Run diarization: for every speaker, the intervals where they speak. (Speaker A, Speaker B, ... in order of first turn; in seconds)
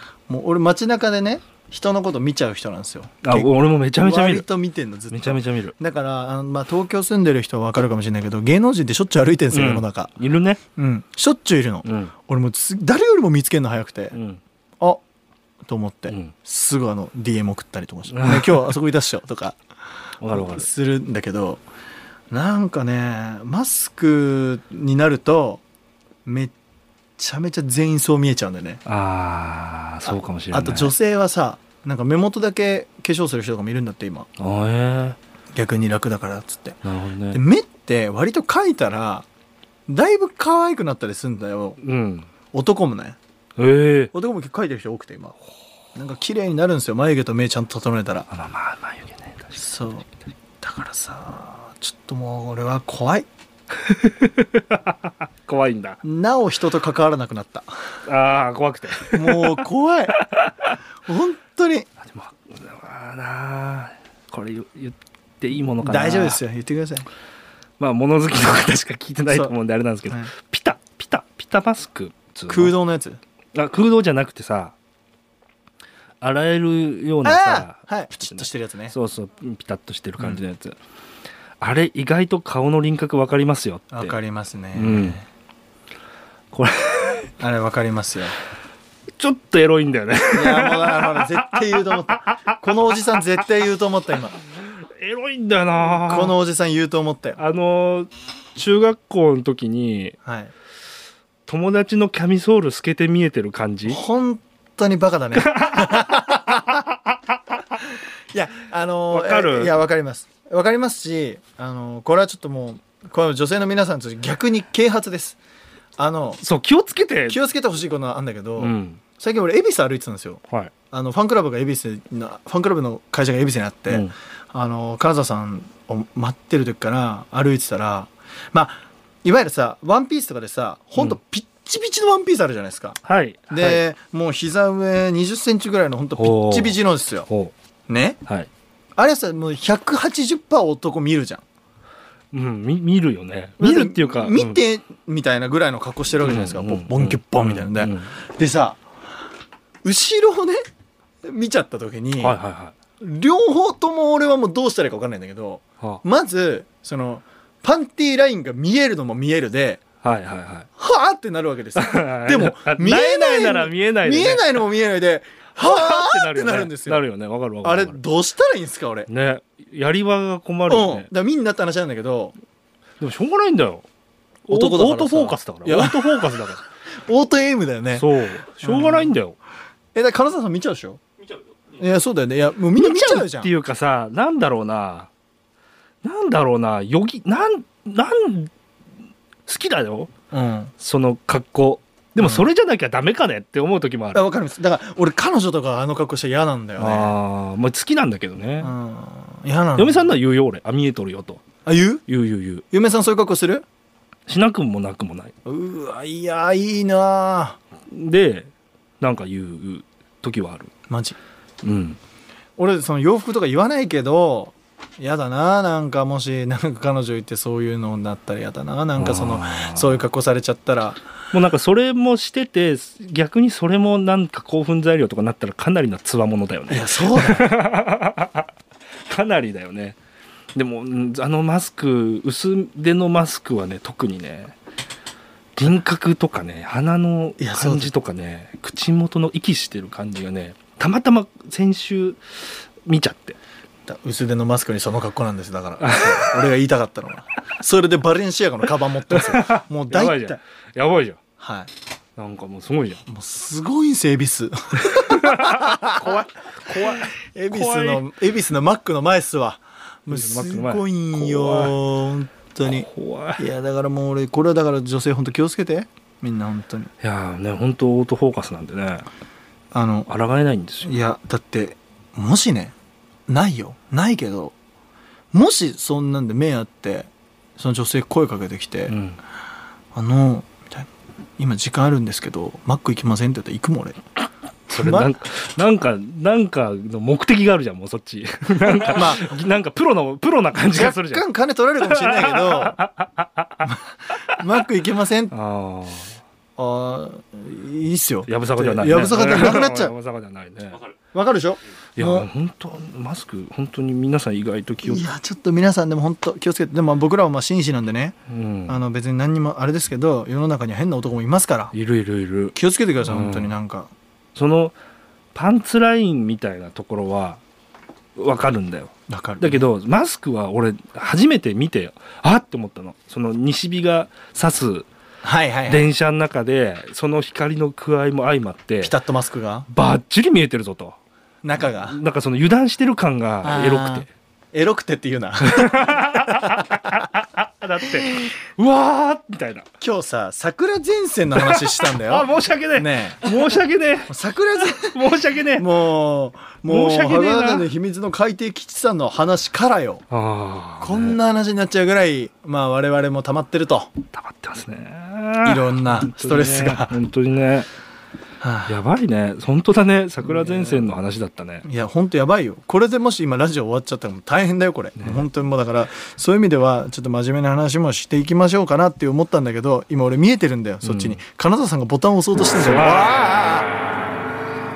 Speaker A: 0.3-10.1, 10.8-14.2, 15.7-19.6, 20.3-21.6, 22.3-25.6, 26.2-26.5, 27.2-28.8, 30.1-34.3, 35.5-39.3, 39.9-41.8, 42.5-43.2, 44.1-45.4, 46.0-48.3, 49.5-50.1, 50.6-53.3, 56.0-57.7, 59.1-60.2, 61.1-61.9, 65.8-67.1, 69.3-69.6, 70.1-70.3, 72.5-73.2, 77.2-79.0, 83.9-85.2, 87.4-88.4, 90.3-94.4, 95.9-97.4, 100.2-100.5, 103.9-106.8, 108.3-115.4, 116.0-116.4, 117.3-133.0, 133.5-137.3, 137.9-138.2, 139.0-141.4, 143.6-148.8, 149.8-150.6, 151.2-152.4, 153.0-159.8, 160.8-167.1, 167.6-169.1, 170.7-172.3, 174.5-179.2, 179.9-181.0, 181.7-183.5, 190.3-190.7, 192.2-192.5, 194.1-197.2, 198.6-200.2, 201.7-202.0, 202.7-203.7, 205.4-207.6, 210.9-211.2, 212.6-221.0, 226.7-227.6, 237.4-237.9, 243.9-250.4, 251.4-251.7, 253.1-266.9, 269.7-270.1, 270.8-272.7, 273.3-274.5, 275.3-278.9, 279.9-284.0, 284.7-285.2, 288.8-289.3, 290.7-292.8, 293.6-295.3, 296.6-299.9, 301.1-302.3, 304.8-308.1, 308.7-311.7, 312.6-313.9, 319.1-319.7, 325.2-325.9, 328.8-329.7, 331.4-332.0, 333.4-336.7, 339.8-350.0, 350.8-353.9, 355.4-357.0, 358.4-358.8, 360.2-360.9, 361.6-373.7
Speaker B: 3.2-4.5, 5.1-5.8, 9.5-10.6, 11.8-12.1, 14.1-14.4, 18.1-18.8, 20.2-20.7, 28.9-30.9, 34.4-35.2, 36.8-37.4, 41.8-42.3, 43.6-44.1, 48.3-49.9, 53.8-56.0, 58.1-59.6, 60.2-60.7, 62.0-66.4, 67.8-72.8, 73.5-74.8, 76.2-80.8, 81.6-84.2, 84.8-85.2, 86.5-87.3, 89.2-93.0, 94.8-96.4, 97.4-100.2, 101.5-104.0, 105.3-106.9, 109.1-109.8, 116.4-117.4, 118.6-119.0, 133.0-133.8, 136.2-137.5, 142.3-144.6, 146.2-148.1, 152.2-152.8, 160.0-160.7, 161.8-164.6, 165.6-168.0, 169.1-171.1, 173.0-173.9, 174.5-176.6, 177.9-179.4, 182.8-185.1, 186.0-188.5, 189.5-190.1, 190.8-194.3, 196.8-198.7, 199.8-201.4, 202.1-202.7, 204.3-205.3, 207.9-210.7, 211.6-212.0, 218.9-220.1, 221.3-228.5, 229.1-230.0, 230.6-234.6, 235.6-243.4, 245.8-246.5, 249.1-251.2, 252.2-253.0, 254.8-258.1, 260.1-261.8, 262.6-263.5, 267.0-269.1, 270.1-271.0, 278.9-279.2, 284.7-291.2, 291.8-293.7, 295.3-296.2, 298.3-300.9, 302.0-305.1, 308.3-308.8, 311.7-313.6, 314.4-314.8, 315.3-317.4, 318.2-324.9, 325.7-329.0, 329.7-331.0, 331.6-334.1, 335.4-339.7, 341.4-345.7, 346.7-347.7, 350.1-351.2, 354.1-357.7, 358.7-361.7, 365.0-365.3, 370.8-371.2, 372.6-374.1